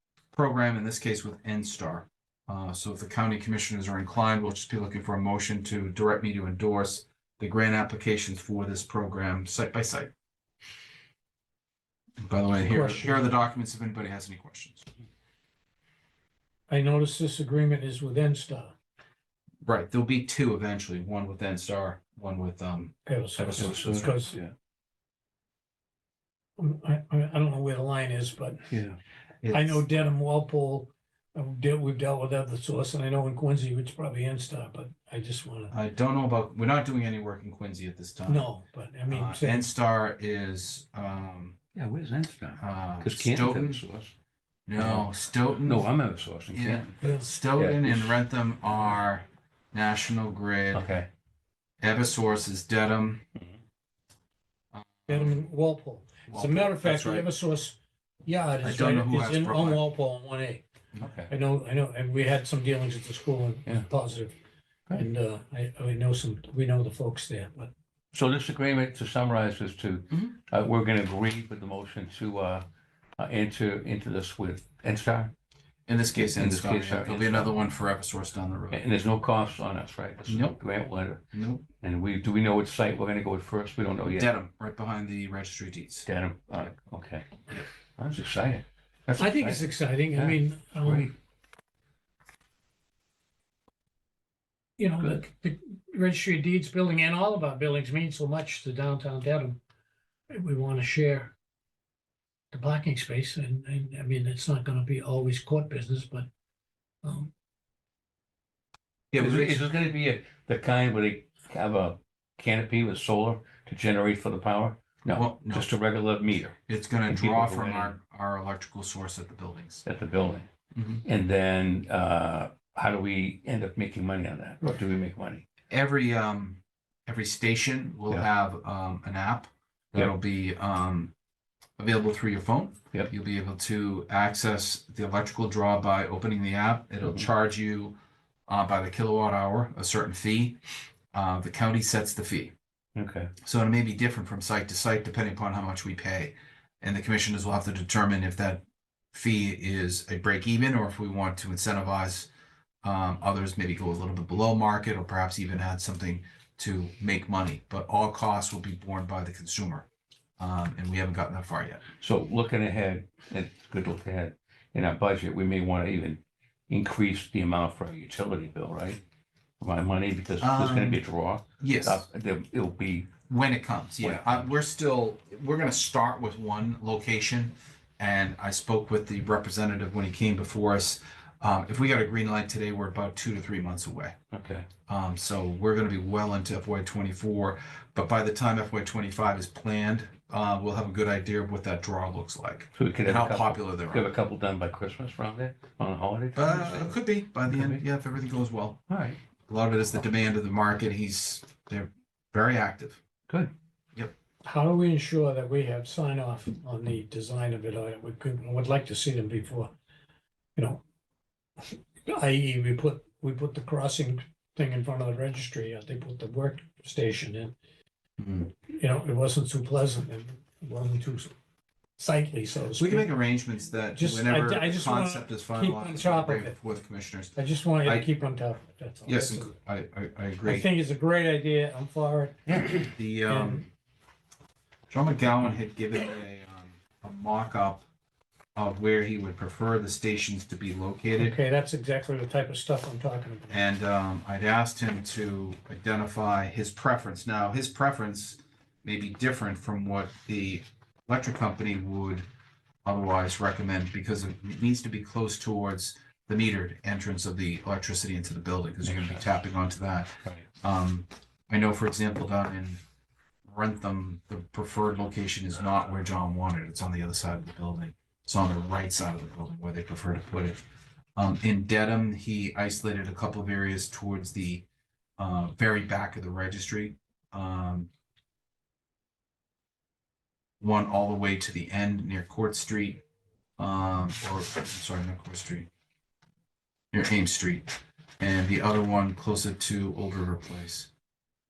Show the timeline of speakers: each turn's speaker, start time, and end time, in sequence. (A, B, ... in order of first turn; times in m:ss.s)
0:00.3-0:10.1 A
0:12.2-0:14.8 A
0:12.6-0:13.3 B
0:16.7-0:18.7 B
0:19.6-0:24.1 A
0:23.0-0:24.4 B
0:23.6-0:24.5 C
0:26.6-0:28.7 B
0:28.7-0:29.0 C
0:29.4-0:29.9 A
0:29.5-0:35.7 B
0:35.7-0:38.5 A
0:38.3-0:39.7 B
0:39.1-0:41.6 A
0:41.7-0:44.1 C
0:42.6-0:43.8 A
0:44.7-0:45.9 A
0:44.8-0:45.1 C
0:45.6-0:47.0 C
0:46.5-0:50.8 A
0:47.0-0:47.3 B
0:47.5-0:48.2 C
0:50.7-0:51.1 C
0:51.8-0:53.2 A
0:53.3-0:53.6 C
0:54.7-0:55.4 A
0:55.1-1:00.6 B
0:56.3-0:57.3 A
0:58.6-0:59.8 A
1:00.9-1:01.3 A
1:01.3-1:04.3 B
1:04.9-1:07.7 B
1:08.1-1:12.6 C
1:10.1-1:10.4 A
1:13.2-1:15.3 C
1:15.9-1:18.8 A
1:16.2-1:17.6 C
1:18.7-1:21.2 C
1:20.3-1:20.6 A
1:21.3-1:21.6 A
1:21.8-1:24.3 C
1:24.0-1:26.1 A
1:26.0-1:27.3 C
1:28.0-1:31.1 C
1:29.2-1:31.1 B
1:34.8-1:39.6 B
1:35.0-1:35.2 C
1:40.3-1:41.3 B
1:42.5-1:46.3 B
1:47.0-1:47.3 B
1:49.1-1:49.6 A
1:49.2-1:58.0 C
1:55.1-1:55.7 A
1:56.7-1:59.8 A
1:59.8-2:00.5 C
2:00.7-2:01.0 A
2:01.0-2:05.4 C
2:05.7-2:11.1 A
2:11.8-2:18.0 A
2:17.0-2:17.3 C
2:18.5-2:20.6 A
2:21.1-2:22.5 A
2:23.0-2:23.3 C
2:23.4-2:28.6 A
2:29.1-2:32.3 A
2:32.8-2:39.9 A
2:40.4-2:41.8 A
2:42.0-2:49.0 C
2:49.6-2:53.1 C
2:50.4-2:51.0 A
2:51.6-2:52.0 A
2:53.3-3:04.1 A
2:54.0-2:54.5 C
3:04.3-3:04.7 C
3:04.9-3:14.0 A
3:12.7-3:17.8 C
3:16.4-3:18.8 A
3:18.9-3:19.2 C
3:19.5-3:23.0 A
3:24.4-3:29.7 B
3:30.6-3:30.8 B
3:31.6-3:37.5 B
3:38.2-3:38.5 A
3:38.7-3:41.3 B
3:42.0-3:43.2 B
3:42.8-3:48.1 A
3:43.9-3:46.6 B
3:47.3-3:49.5 B
3:49.0-3:50.7 A
3:50.4-3:52.6 B
3:52.5-3:52.9 C
3:52.9-3:53.7 A
3:53.2-3:53.6 B
3:54.9-3:57.8 A
3:58.5-4:01.4 A
4:01.2-4:03.6 B
4:03.5-4:12.3 A
4:12.8-4:22.8 A
4:18.8-4:19.3 C
4:23.4-4:30.6 A
4:31.2-4:34.6 A
4:35.2-4:37.9 A
4:40.6-4:43.0 A
4:43.6-4:45.7 A
4:46.9-4:50.9 A